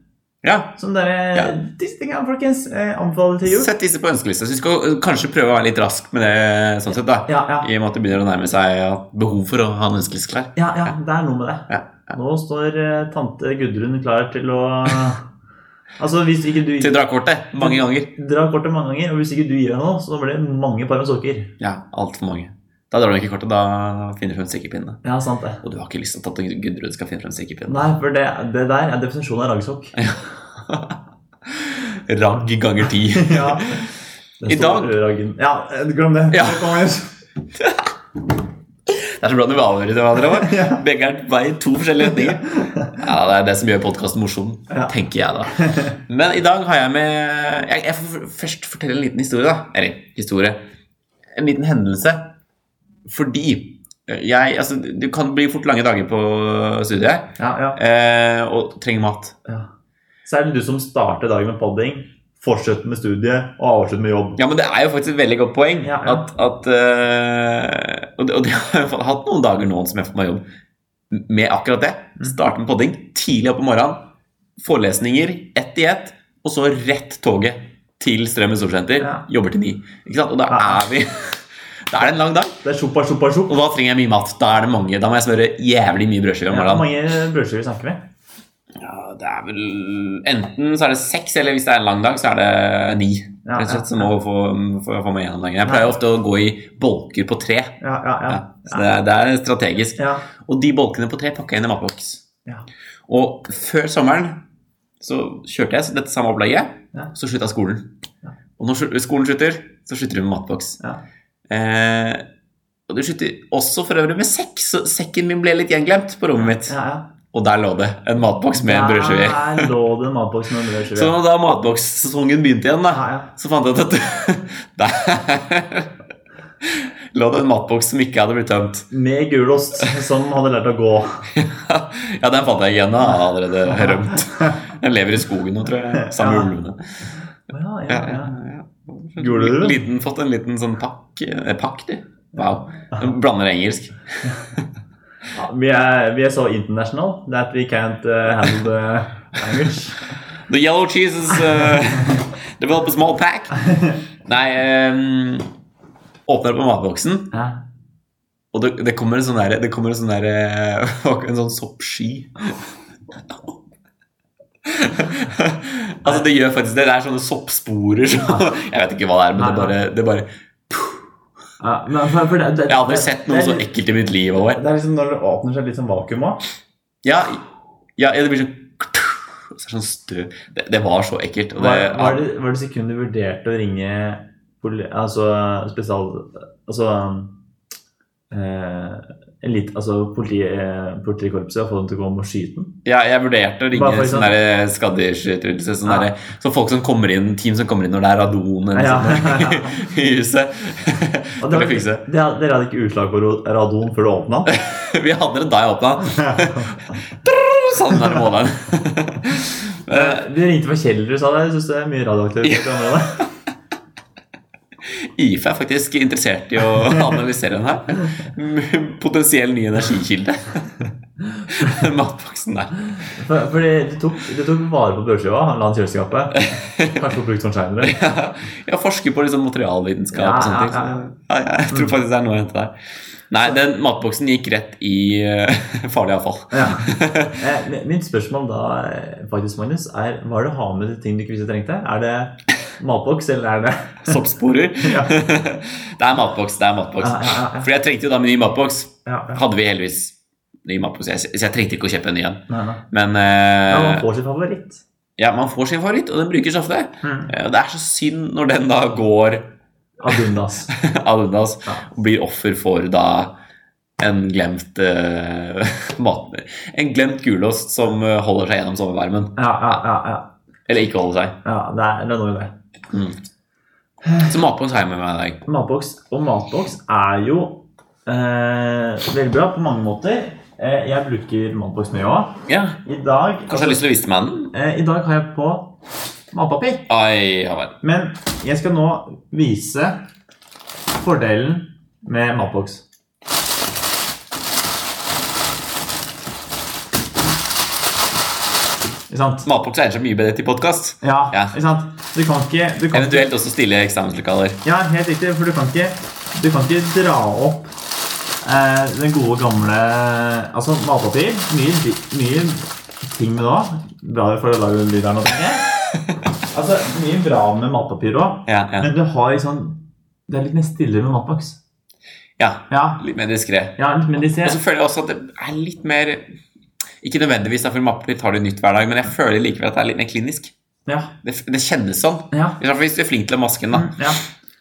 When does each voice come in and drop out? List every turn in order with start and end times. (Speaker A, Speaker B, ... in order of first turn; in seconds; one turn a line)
Speaker A: 0.4-0.7
Speaker B: 0.8-3.7
Speaker A: 3.5-10.9
Speaker B: 7.2-7.7
Speaker B: 10.6-15.2
Speaker A: 11.7-12.0
Speaker B: 16.0-17.0
Speaker A: 16.8-18.1
Speaker B: 17.6-21.5
Speaker A: 21.6-25.0
Speaker B: 25.0-25.6
Speaker A: 25.6-27.8
Speaker B: 27.7-30.0
Speaker A: 29.9-31.0
Speaker A: 31.5-33.9
Speaker B: 33.1-33.8
Speaker B: 34.4-37.1
Speaker A: 34.5-35.0
Speaker A: 36.3-36.8
Speaker A: 37.5-37.9
Speaker A: 38.9-50.6
Speaker B: 40.3-40.8
Speaker B: 42.0-42.9
Speaker B: 44.7-44.9
Speaker B: 45.5-46.0
Speaker A: 51.3-52.3
Speaker A: 53.0-59.4
Speaker B: 57.4-57.8
Speaker B: 60.2-64.4
Speaker A: 64.4-70.4
Speaker B: 65.8-66.3
Speaker A: 71.1-74.1
Speaker A: 74.6-82.6
Speaker B: 79.0-79.2
Speaker B: 80.5-80.8
Speaker B: 82.6-83.5
Speaker A: 83.5-86.9
Speaker B: 86.5-88.0
Speaker A: 88.8-102.2
Speaker B: 93.4-94.1
Speaker B: 95.6-95.9
Speaker B: 97.8-98.9
Speaker B: 100.0-100.2
Speaker A: 103.1-104.4
Speaker A: 105.0-107.9
Speaker A: 108.6-110.8
Speaker A: 111.5-112.2
Speaker A: 112.9-116.8
Speaker B: 116.4-117.1
Speaker A: 117.3-119.7
Speaker B: 118.6-121.1
Speaker A: 120.9-125.9
Speaker B: 122.9-123.3
Speaker A: 126.6-128.9
Speaker B: 128.9-131.3
Speaker A: 131.3-136.8
Speaker B: 133.6-134.6
Speaker B: 135.9-136.5
Speaker B: 137.5-138.4
Speaker A: 137.9-144.7
Speaker B: 139.2-139.8
Speaker B: 142.4-143.1
Speaker B: 145.3-150.1
Speaker A: 150.5-153.7
Speaker B: 151.5-151.8
Speaker A: 154.2-155.5
Speaker A: 156.2-157.3
Speaker B: 157.3-157.6
Speaker A: 158.5-162.5
Speaker A: 164.7-171.0
Speaker B: 169.3-169.7
Speaker B: 171.6-173.7
Speaker A: 172.7-174.6
Speaker B: 174.5-176.4
Speaker A: 177.0-177.4
Speaker A: 178.0-182.2
Speaker B: 181.6-187.3
Speaker B: 188.3-192.8
Speaker A: 192.8-202.0
Speaker B: 193.7-194.3
Speaker B: 195.8-196.1
Speaker B: 198.7-199.8
Speaker B: 201.4-204.5
Speaker A: 204.5-210.3
Speaker B: 209.9-213.3
Speaker A: 212.4-213.2
Speaker A: 214.9-220.7
Speaker A: 221.5-222.9
Speaker B: 223.1-228.0
Speaker A: 226.4-227.0
Speaker A: 227.8-232.7
Speaker B: 230.1-231.0
Speaker A: 233.3-237.4
Speaker B: 236.5-244.2
Speaker A: 244.0-254.0
Speaker B: 244.8-245.3
Speaker B: 247.0-247.7
Speaker B: 249.1-249.4
Speaker B: 252.5-252.8
Speaker B: 253.7-254.8
Speaker A: 255.2-259.5
Speaker B: 257.0-257.3
Speaker B: 260.0-260.7
Speaker A: 260.7-263.3
Speaker A: 264.0-269.4
Speaker B: 269.4-270.3
Speaker A: 270.7-271.4
Speaker B: 271.4-272.5
Speaker A: 272.9-273.2
Speaker B: 274.0-274.3
Speaker A: 274.2-275.4
Speaker B: 275.4-283.8
Speaker A: 282.5-282.8
Speaker A: 283.5-284.5
Speaker B: 284.5-285.8
Speaker B: 286.3-286.9
Speaker A: 286.9-287.8
Speaker B: 287.8-290.0
Speaker B: 290.9-292.8
Speaker B: 299.1-299.4
Speaker A: 299.4-301.5
Speaker B: 301.0-303.3
Speaker A: 302.9-304.6
Speaker B: 304.6-307.7
Speaker B: 308.4-315.7
Speaker B: 316.5-321.6
Speaker A: 318.5-318.9
Speaker A: 322.4-326.3
Speaker B: 322.7-323.0
Speaker B: 323.8-324.6
Speaker A: 327.0-330.5
Speaker B: 330.9-331.1
Speaker A: 331.2-334.1
Speaker B: 332.3-332.6
Speaker B: 333.7-334.2